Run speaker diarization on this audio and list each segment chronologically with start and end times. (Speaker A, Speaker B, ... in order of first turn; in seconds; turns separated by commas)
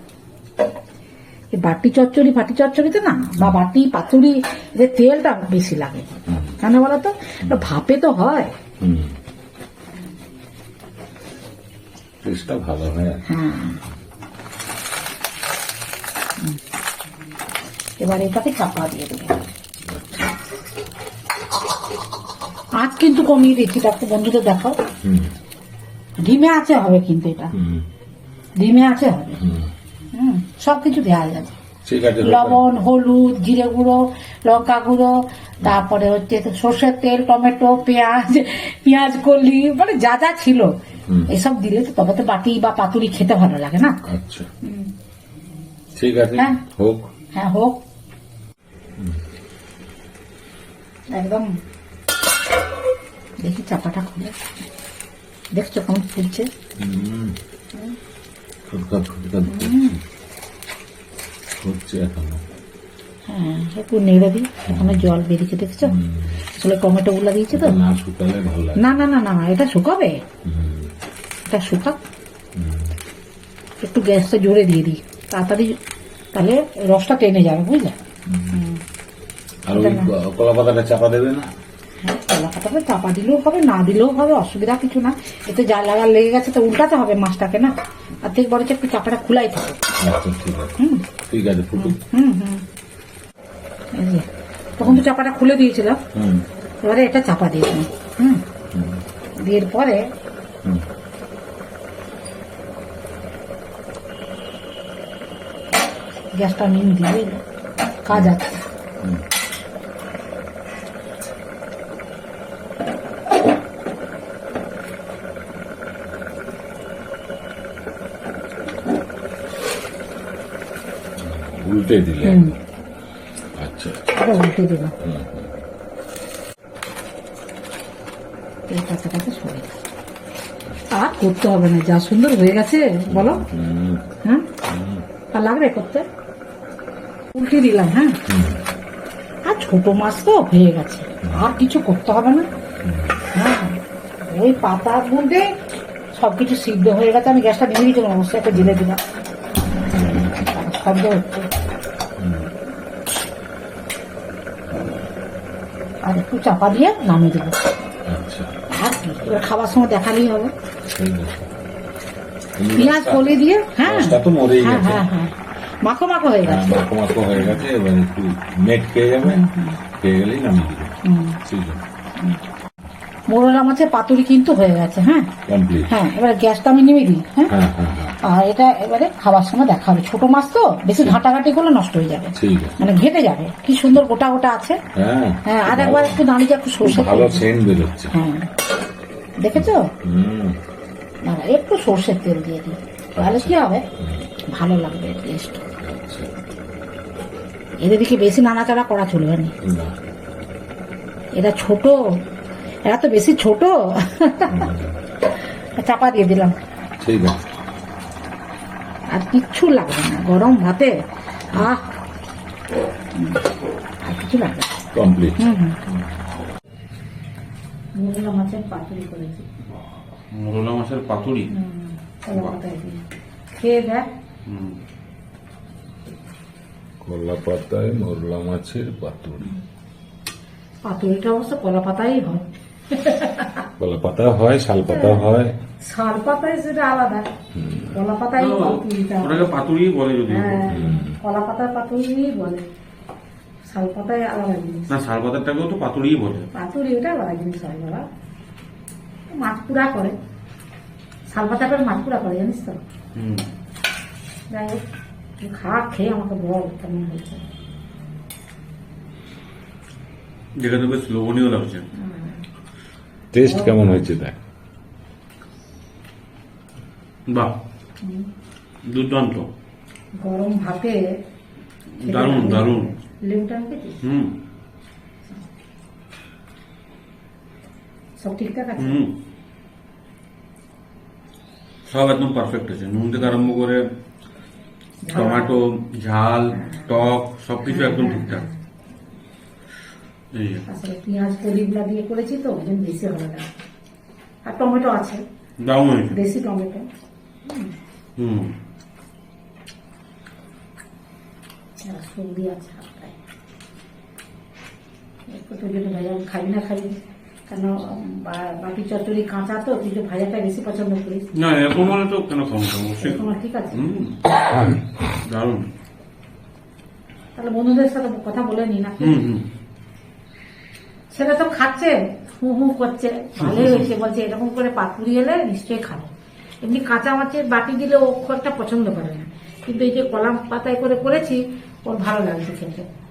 Speaker A: 1.5-6.1, Speaker B: 6.3-6.5, Speaker A: 6.6-8.5, Speaker B: 8.8-9.2, Speaker B: 12.2-13.2, Speaker A: 13.3-13.8, Speaker A: 18.0-19.4, Speaker B: 19.9-20.3, Speaker A: 22.8-24.8, Speaker B: 25.0-25.3, Speaker A: 26.2-27.5, Speaker B: 27.5-27.8, Speaker A: 28.6-29.4, Speaker B: 29.4-29.7, Speaker A: 30.1-31.6, Speaker B: 31.9-32.7, Speaker A: 32.2-40.7, Speaker A: 41.3-44.0, Speaker B: 44.1-44.5, Speaker A: 44.6-44.9, Speaker B: 46.0-47.1, Speaker A: 46.4-46.6, Speaker A: 47.4-47.8, Speaker A: 51.1-51.5, Speaker A: 53.4-54.3, Speaker A: 55.5-56.5, Speaker B: 56.8-57.4, Speaker B: 58.7-60.0, Speaker A: 59.5-59.9, Speaker B: 61.6-62.4, Speaker A: 63.3-66.0, Speaker B: 64.7-65.1, Speaker B: 65.8-66.3, Speaker A: 66.5-67.8, Speaker B: 67.5-69.0, Speaker A: 68.8-70.2, Speaker B: 70.5-70.9, Speaker A: 71.5-72.0, Speaker B: 72.6-72.9, Speaker A: 73.8-75.7, Speaker A: 76.3-78.0, Speaker B: 78.3-78.6, Speaker A: 78.5-78.8, Speaker B: 79.7-81.5, Speaker A: 79.7-80.1, Speaker A: 82.0-89.8, Speaker B: 90.0-90.7, Speaker A: 90.8-91.0, Speaker B: 91.3-92.0, Speaker A: 91.8-92.6, Speaker A: 94.0-94.3, Speaker A: 94.8-96.0, Speaker B: 94.8-95.1, Speaker B: 96.2-96.5, Speaker A: 96.8-98.4, Speaker B: 98.7-99.0, Speaker A: 99.4-100.0, Speaker A: 106.4-107.4, Speaker A: 108.0-108.6, Speaker B: 121.2-122.5, Speaker A: 122.2-122.5, Speaker B: 123.6-124.0, Speaker A: 124.2-124.9, Speaker B: 125.0-125.5, Speaker A: 128.7-129.7, Speaker A: 130.9-133.5, Speaker B: 133.1-134.0, Speaker B: 134.7-135.0, Speaker A: 135.3-136.1, Speaker A: 137.3-138.2, Speaker B: 138.3-138.6, Speaker A: 139.5-142.5, Speaker B: 142.8-143.2, Speaker A: 143.3-145.5, Speaker A: 146.1-149.0, Speaker B: 148.5-148.8, Speaker B: 149.9-150.3, Speaker A: 150.2-151.5, Speaker B: 152.2-152.5, Speaker A: 156.1-157.6, Speaker B: 158.1-158.5, Speaker A: 158.8-160.5, Speaker B: 160.9-161.6, Speaker B: 162.6-165.1, Speaker A: 162.8-166.8, Speaker B: 166.4-169.4, Speaker A: 167.3-167.7, Speaker A: 169.2-169.8, Speaker B: 170.0-170.9, Speaker A: 171.1-171.4, Speaker B: 171.4-171.8, Speaker A: 173.3-175.3, Speaker B: 175.5-175.9, Speaker A: 175.9-177.5, Speaker B: 177.5-178.2, Speaker A: 178.2-184.8, Speaker B: 182.4-182.8, Speaker B: 184.9-186.2, Speaker A: 185.5-187.5, Speaker B: 186.8-188.1, Speaker A: 188.1-188.5, Speaker A: 189.4-189.9, Speaker B: 189.6-190.6, Speaker A: 191.2-193.8, Speaker B: 193.2-194.2, Speaker A: 194.5-195.6, Speaker B: 195.8-196.3, Speaker A: 197.8-199.5, Speaker B: 199.6-200.0, Speaker A: 201.4-202.0, Speaker A: 202.9-204.6, Speaker B: 204.5-204.9, Speaker A: 205.8-206.6, Speaker B: 207.0-207.4, Speaker A: 209.1-210.9, Speaker A: 211.5-211.9, Speaker A: 213.2-213.4, Speaker A: 214.0-214.8, Speaker B: 214.9-215.9, Speaker A: 215.4-215.8, Speaker A: 217.9-219.4, Speaker C: 220.3-221.5, Speaker A: 221.5-224.1, Speaker C: 222.3-222.6, Speaker C: 224.5-224.8, Speaker B: 227.0-229.5, Speaker A: 230.8-233.7, Speaker B: 233.8-235.5, Speaker A: 234.8-235.3, Speaker A: 235.8-237.2, Speaker B: 237.6-238.0, Speaker A: 237.9-239.5, Speaker C: 238.4-240.7, Speaker A: 240.3-242.6, Speaker B: 240.7-241.2, Speaker A: 243.7-244.9, Speaker C: 244.9-246.5, Speaker A: 246.5-248.1, Speaker A: 249.3-250.2, Speaker A: 251.3-252.8, Speaker C: 253.2-253.5, Speaker A: 254.5-254.8, Speaker A: 255.4-257.4, Speaker C: 260.6-261.9, Speaker A: 262.0-262.4, Speaker B: 263.3-264.4, Speaker A: 263.4-264.2, Speaker C: 267.3-267.6, Speaker C: 268.9-269.5, Speaker A: 270.2-271.0, Speaker A: 272.0-274.0, Speaker C: 272.0-272.9, Speaker C: 274.0-274.3, Speaker A: 278.2-279.0, Speaker C: 278.8-279.1, Speaker C: 281.9-283.9, Speaker A: 285.0-285.6, Speaker C: 285.1-288.4, Speaker A: 286.7-286.9, Speaker A: 287.7-288.5, Speaker C: 290.3-290.6, Speaker A: 290.7-293.5, Speaker A: 294.5-295.2, Speaker C: 295.6-296.2, Speaker A: 296.1-296.9, Speaker A: 297.5-297.7, Speaker C: 298.2-298.5, Speaker A: 301.8-303.1, Speaker A: 305.3-307.0, Speaker A: 307.5-311.9, Speaker C: 311.4-315.7, Speaker A: 313.0-313.9, Speaker A: 317.4-319.2, Speaker C: 319.0-319.5, Speaker A: 321.1-326.1, Speaker C: 323.4-323.8, Speaker A: 326.6-332.9